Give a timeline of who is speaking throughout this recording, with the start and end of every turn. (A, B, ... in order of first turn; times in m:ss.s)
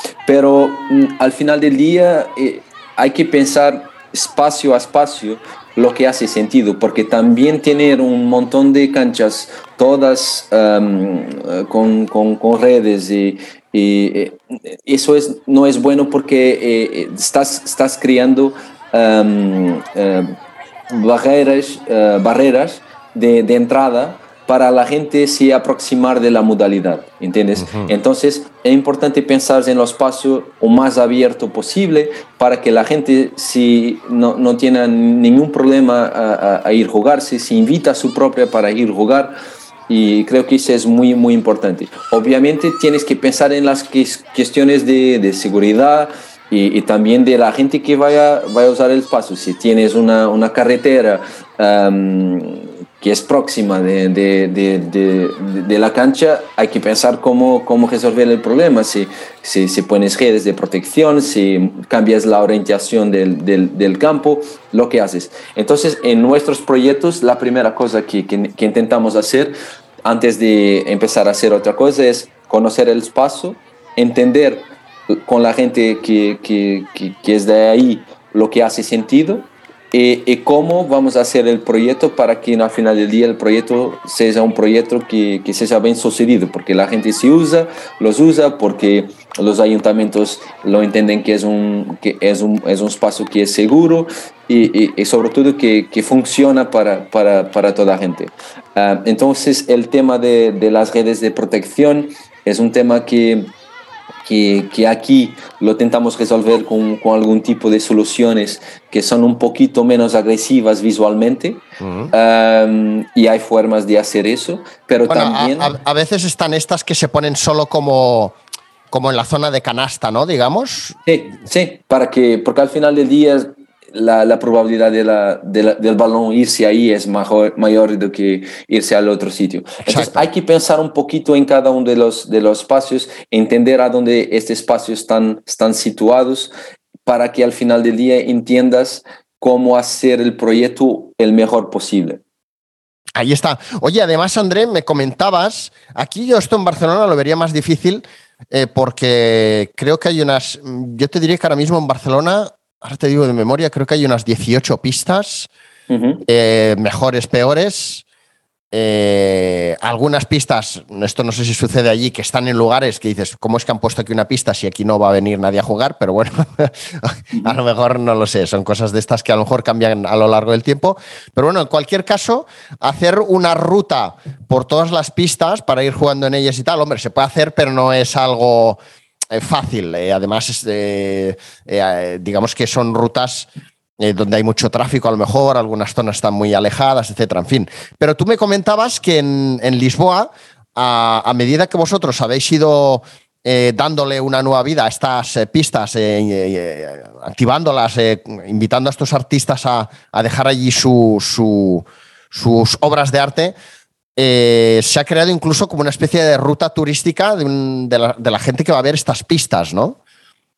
0:00.3-0:20.3 A
0:20.9-0:39.4 A
0:27.6-0:27.9 B
0:39.9-1:43.5 A
1:44.2-1:55.7 A
1:51.8-1:52.1 B
1:55.1-1:58.4 B
1:58.9-2:01.0 B
2:01.1-2:16.5 A
2:09.9-2:10.3 B
2:17.1-2:22.2 A
2:23.2-2:35.5 B
2:35.9-2:36.2 A
2:36.3-2:38.0 B
2:38.7-2:58.8 B
2:59.3-3:03.5 B
3:04.0-3:23.6 B
3:24.2-3:30.0 B